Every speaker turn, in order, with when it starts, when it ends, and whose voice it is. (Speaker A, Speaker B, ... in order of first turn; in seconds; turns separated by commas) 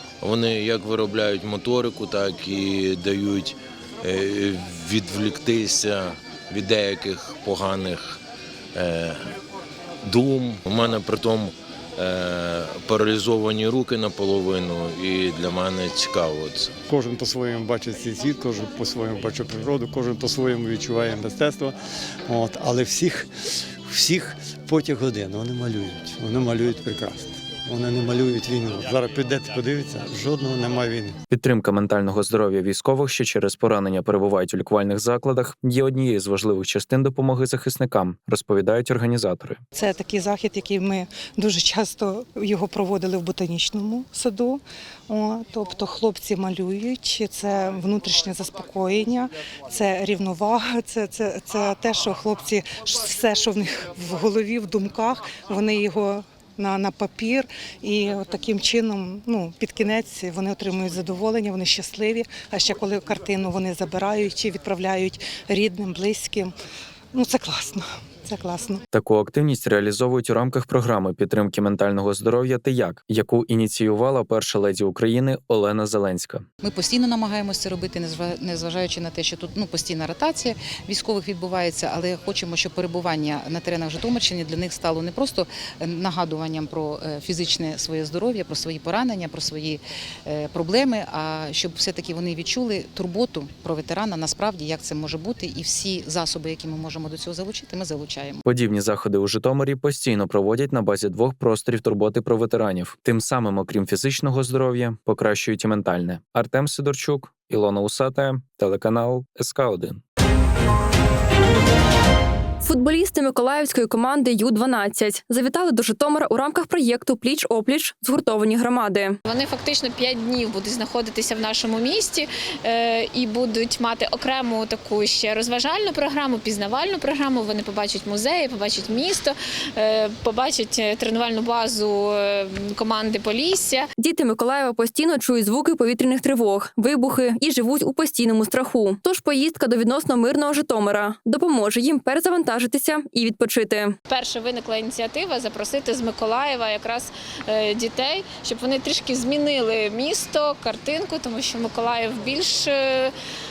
Speaker A: 0.2-8.2, Speaker A: 8.7-9.3, Speaker A: 10.0-16.7, Speaker B: 16.9-21.8, Speaker B: 22.3-23.3, Speaker B: 23.9-31.2, Speaker C: 31.3-39.6, Speaker D: 39.8-66.5, Speaker D: 67.1-68.8, Speaker C: 68.9-76.4, Speaker E: 76.6-98.4, Speaker C: 98.5-110.0, Speaker F: 112.6-119.2, Speaker G: 119.2-133.9, Speaker F: 134.0-143.9, Speaker G: 144.1-153.1